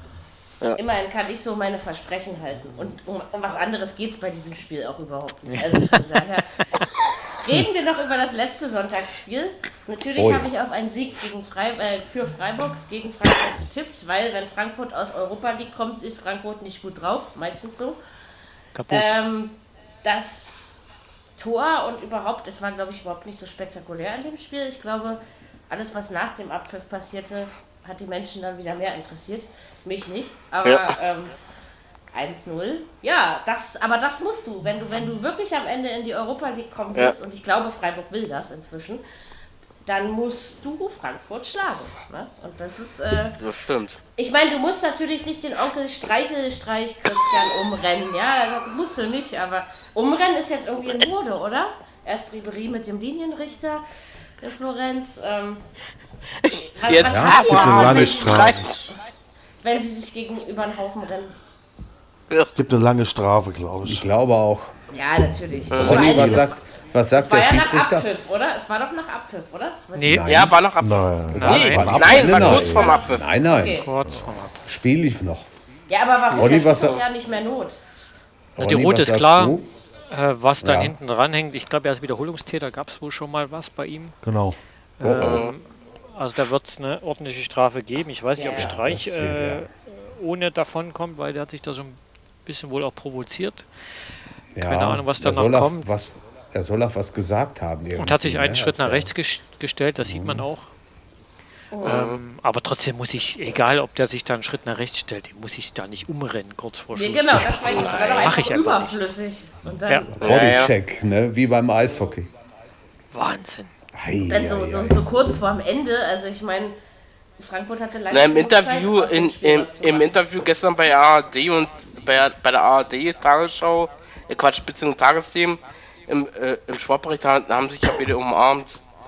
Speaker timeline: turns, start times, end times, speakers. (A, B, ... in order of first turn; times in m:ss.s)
0:00.8-0:06.5 A
0:05.6-0:06.0 B
0:07.3-0:18.0 A
0:10.2-0:10.5 C
0:18.8-0:19.2 B
0:18.9-0:20.8 A
0:21.4-0:31.3 A
0:30.6-0:30.9 D
0:32.1-0:39.0 A
0:39.8-0:43.4 A
0:43.4-0:44.0 D
0:44.2-0:53.8 A
0:54.4-0:55.6 A
0:56.4-0:58.9 D
0:56.8-0:58.5 A
0:56.9-0:58.5 C
0:57.4-0:58.6 E
0:59.6-1:01.4 A
1:02.5-1:04.1 E
1:03.8-1:04.7 C
1:04.9-1:06.6 A
1:05.7-1:06.1 D
1:05.7-1:08.1 C
1:05.8-1:06.5 E
1:07.1-1:10.2 A
1:10.0-1:10.3 B
1:10.0-1:10.6 C
1:10.3-1:13.3 D
1:10.8-1:12.9 E
1:11.3-1:13.8 C
1:11.3-1:12.5 B
1:12.4-1:13.9 A
1:13.5-1:14.6 B
1:14.6-1:15.5 C
1:15.9-1:17.8 A
1:16.3-1:17.0 C
1:16.4-1:17.0 D
1:18.6-1:19.7 C
1:18.6-1:19.6 B
1:20.1-1:24.2 B
1:20.6-1:21.0 C
1:24.2-1:24.6 E
1:25.0-1:33.7 B
1:25.0-1:25.5 C
1:25.2-1:25.5 D
1:28.4-1:28.7 A
1:28.5-1:29.7 C
1:34.6-1:39.1 C
1:34.6-1:35.9 B
1:38.0-1:40.7 B
1:40.0-1:40.4 C
1:41.7-1:42.0 A
1:41.8-1:49.0 B
1:41.8-1:42.2 D
1:46.9-1:50.2 A
1:47.4-1:47.8 C
1:48.0-1:48.3 D
1:50.1-1:52.3 C
1:50.2-1:50.7 D
1:53.1-1:53.7 B
1:53.9-1:55.1 C
1:54.3-1:56.8 A
1:57.4-2:00.1 A
1:58.1-2:08.8 D